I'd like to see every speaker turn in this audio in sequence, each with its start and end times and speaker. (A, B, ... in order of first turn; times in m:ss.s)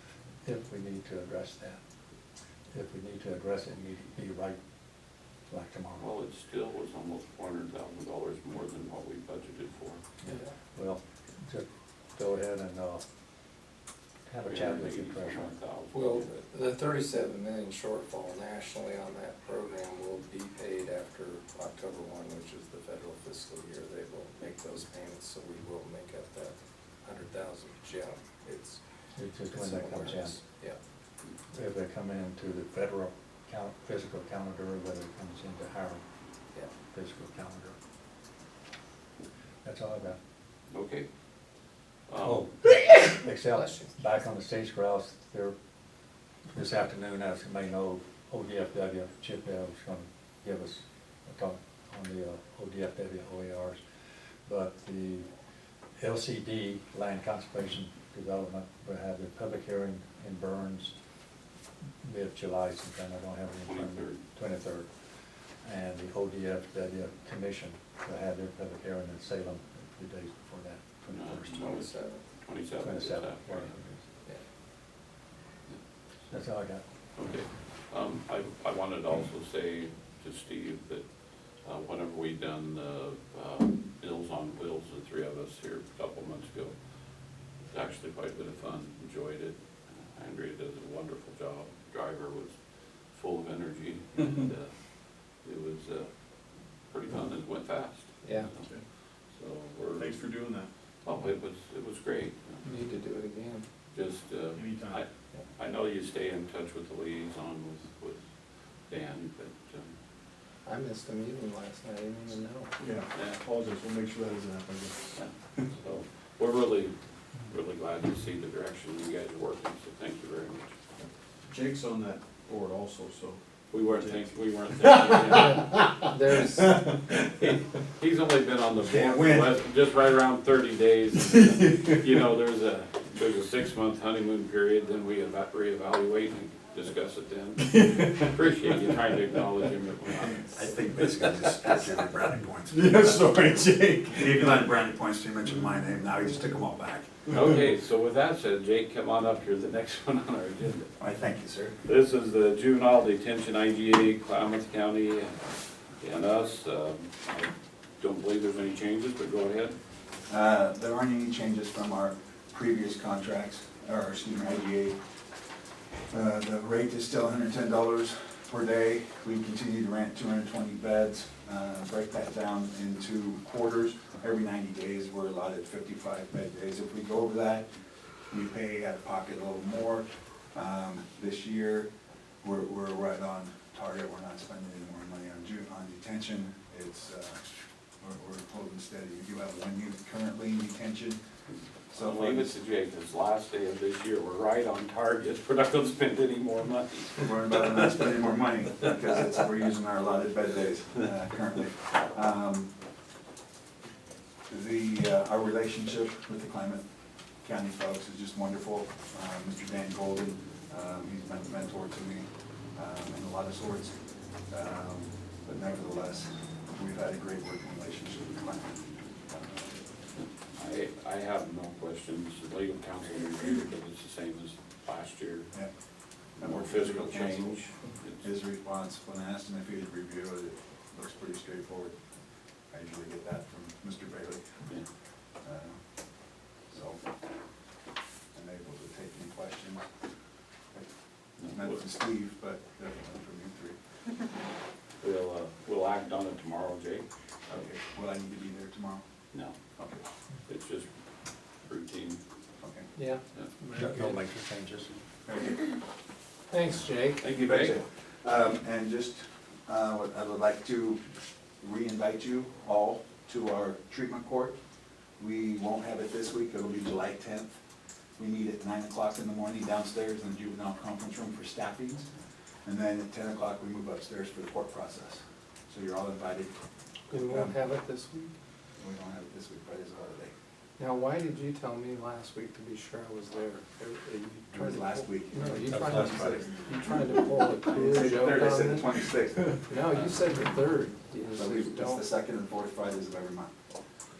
0:00.4-0:01.8 A
0:02.7-0:04.6 A
0:05.5-0:06.1 A
0:06.0-0:10.0 B
0:10.2-0:13.0 A
0:10.2-0:10.5 C
0:14.3-0:15.5 A
0:14.5-0:16.4 B
0:15.9-0:28.8 C
0:29.1-0:30.4 A
0:29.5-0:30.8 C
0:31.5-0:36.0 A
0:36.9-0:37.8 A
0:39.6-0:40.2 A
0:40.7-0:41.0 B
0:42.1-0:42.5 B
0:42.2-0:45.5 A
0:43.4-0:43.9 C
0:46.5-0:53.8 A
0:54.4-0:55.2 A
0:56.0-1:00.9 A
1:02.0-1:04.9 A
1:03.7-1:04.2 B
1:05.6-1:11.8 A
1:11.1-1:11.9 B
1:11.5-1:12.2 C
1:12.4-1:13.7 B
1:12.8-1:14.0 A
1:16.3-1:16.8 A
1:17.2-1:21.0 B
1:21.6-1:26.7 B
1:27.7-1:32.5 B
1:33.1-1:34.7 B
1:35.4-1:36.2 B
1:36.8-1:40.2 B
1:38.2-1:38.5 C
1:38.6-1:38.8 D
1:39.9-1:40.7 D
1:41.0-1:42.6 B
1:42.6-1:43.6 C
1:43.9-1:48.2 B
1:44.5-1:45.0 D
1:48.9-1:49.9 B
1:50.6-1:52.7 C
1:52.8-1:55.2 D
1:53.1-1:53.4 B
1:55.2-1:56.9 B
1:57.4-2:00.7 B
2:01.0-2:04.3 D
2:03.7-2:05.8 B
2:05.3-2:07.0 C
2:06.5-2:07.6 D
2:08.0-2:20.6 B
2:11.6-2:11.9 D
2:17.6-2:18.3 D
2:20.2-2:23.2 E
2:22.7-2:24.6 D
2:24.1-2:27.1 E
2:27.3-2:30.9 B
2:31.0-2:31.8 E
2:31.8-2:35.4 B
2:36.0-2:39.8 B
2:40.3-2:45.0 E
2:46.1-2:57.7 E
2:58.3-3:01.9 E
3:02.4-3:07.4 E
3:08.0-3:11.2 E
3:11.9-3:12.5 E
3:11.9-3:17.8 B
3:17.2-3:22.7 E
3:24.5-3:26.8 E
3:27.4-3:34.0 E
3:34.5-3:39.7 E
3:40.5-3:45.5 B
3:46.4-3:47.6 E
3:46.4-3:48.2 B
3:48.2-3:52.0 E
3:52.7-3:54.5 E
3:55.4-3:55.8 E
3:56.7-3:57.0 E
3:58.3-3:59.8 E
4:00.7-4:03.8 E
4:01.4-4:01.8 B
4:05.0-4:07.0 B
4:07.5-4:09.0 E
4:09.8-4:10.0 E
4:10.5-4:10.9 B
4:11.6-4:12.2 B
4:12.6-4:12.9 E
4:12.9-4:14.2 C
4:13.7-4:14.9 A
4:15.2-4:15.6 E
4:16.5-4:17.2 C
4:17.2-4:17.7 B
4:17.3-4:21.0 E
4:21.6-4:24.6 E
4:25.2-4:27.6 E
4:28.2-4:32.1 E
4:32.6-4:36.6 E
4:37.1-4:38.3 C
4:37.1-4:37.5 E
4:38.8-4:40.3 E
4:40.8-4:48.9 C
4:44.5-4:46.6 E
4:47.7-4:49.6 E
4:49.7-4:52.0 C
4:51.3-4:53.5 E